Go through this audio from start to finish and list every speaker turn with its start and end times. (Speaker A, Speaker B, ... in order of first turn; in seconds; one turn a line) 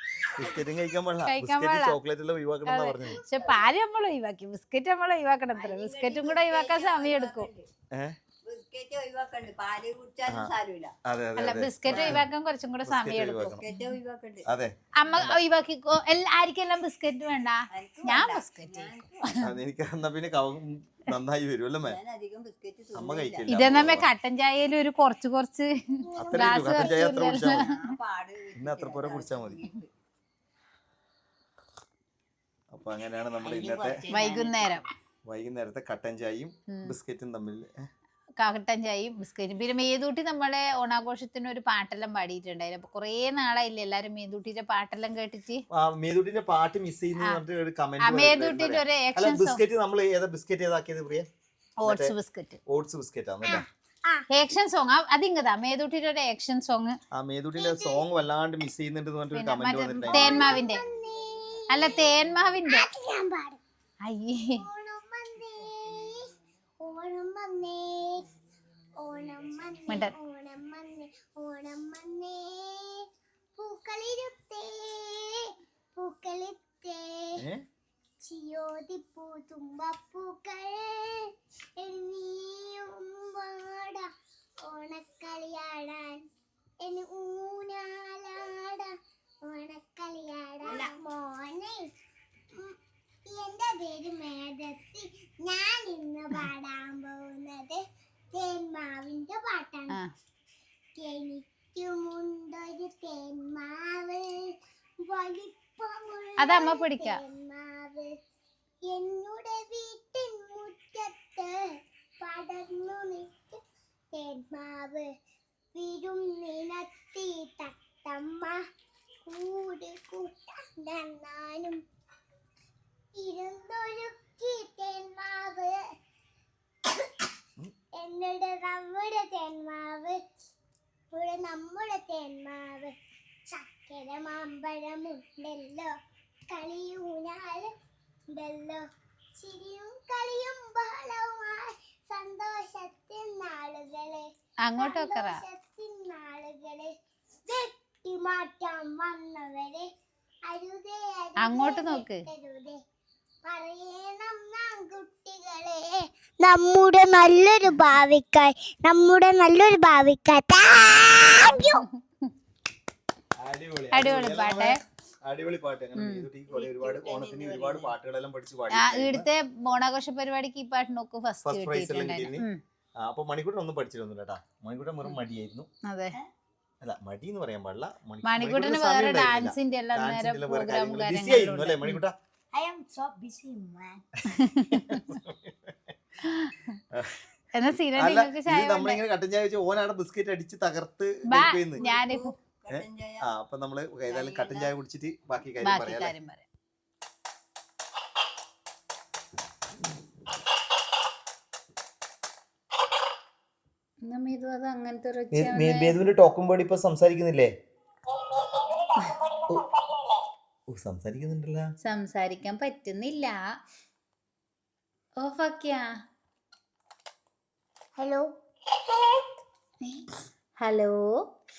Speaker A: 0.3-3.2
Speaker B: 1.3-1.9
Speaker B: 2.7-7.5
Speaker C: 5.5-7.7
Speaker A: 7.9-8.2
Speaker C: 8.4-10.9
Speaker A: 10.3-10.5
Speaker A: 11.1-12.3
Speaker B: 11.3-14.0
Speaker C: 11.9-12.2
Speaker A: 12.8-13.6
Speaker C: 13.5-14.4
Speaker A: 14.5-15.4
Speaker B: 15.0-19.5
Speaker C: 17.7-19.3
Speaker A: 19.4-22.0
Speaker C: 21.8-23.4
Speaker A: 22.9-24.1
Speaker B: 23.5-27.9
Speaker D: 26.1-26.8
Speaker A: 26.2-27.6
Speaker C: 27.3-29.9
Speaker A: 28.5-29.6
Speaker A: 32.7-34.0
Speaker E: 33.4-34.5
Speaker B: 34.1-34.8
Speaker C: 34.2-34.8
Speaker A: 35.2-37.9
Speaker B: 38.4-45.6
Speaker A: 45.7-51.3
Speaker B: 48.0-49.6
Speaker B: 51.8-52.6
Speaker A: 51.8-52.1
Speaker A: 52.7-53.7
Speaker D: 53.4-54.2
Speaker B: 54.3-57.0
Speaker A: 57.1-60.6
Speaker D: 57.5-58.0
Speaker B: 59.3-60.8
Speaker D: 60.1-63.6
Speaker C: 61.2-61.5
Speaker B: 61.7-62.9
Speaker B: 64.0-64.6
Speaker D: 64.4-66.3
Speaker C: 65.7-66.2
Speaker D: 66.8-68.2
Speaker D: 69.0-73.0
Speaker C: 69.1-69.8
Speaker B: 69.9-70.1
Speaker D: 73.5-77.4
Speaker A: 77.4-77.6
Speaker D: 78.2-84.1
Speaker D: 84.6-86.2
Speaker D: 86.8-88.9
Speaker D: 89.4-91.9
Speaker E: 90.6-90.9
Speaker D: 92.5-97.8
Speaker D: 98.3-100.0
Speaker D: 101.0-104.5
Speaker D: 105.0-108.1
Speaker B: 106.4-107.2
Speaker D: 108.8-111.6
Speaker D: 112.2-113.6
Speaker D: 114.1-115.1
Speaker D: 115.7-118.6
Speaker D: 119.2-121.8
Speaker D: 123.1-125.8
Speaker D: 128.0-130.2
Speaker D: 131.1-132.9
Speaker D: 133.5-135.9
Speaker D: 136.5-137.7
Speaker D: 138.3-138.8
Speaker D: 139.4-146.9
Speaker B: 144.6-145.4
Speaker D: 147.4-149.9
Speaker D: 150.5-152.8
Speaker B: 151.4-152.2
Speaker D: 153.4-161.8
Speaker B: 161.3-162.3
Speaker A: 163.4-169.3
Speaker B: 163.9-164.8
Speaker B: 166.0-166.2
Speaker E: 166.5-167.9
Speaker B: 168.7-172.6
Speaker A: 171.4-172.4
Speaker A: 173.0-175.7
Speaker B: 175.8-176.1
Speaker A: 176.8-182.1
Speaker B: 178.3-182.0
Speaker E: 182.5-184.1
Speaker B: 184.3-185.1
Speaker A: 184.7-185.7
Speaker B: 186.2-186.8
Speaker A: 186.9-187.2
Speaker B: 187.5-189.0
Speaker A: 187.9-191.8
Speaker B: 191.3-192.3
Speaker C: 191.8-193.2
Speaker A: 192.7-196.1
Speaker C: 194.1-194.7
Speaker B: 195.6-196.4
Speaker B: 204.0-205.9
Speaker A: 205.3-207.5
Speaker D: 208.2-210.0
Speaker A: 210.7-211.7
Speaker B: 211.8-213.4
Speaker B: 215.2-215.9
Speaker D: 218.0-218.3
Speaker D: 218.9-219.2
Speaker B: 220.6-221.1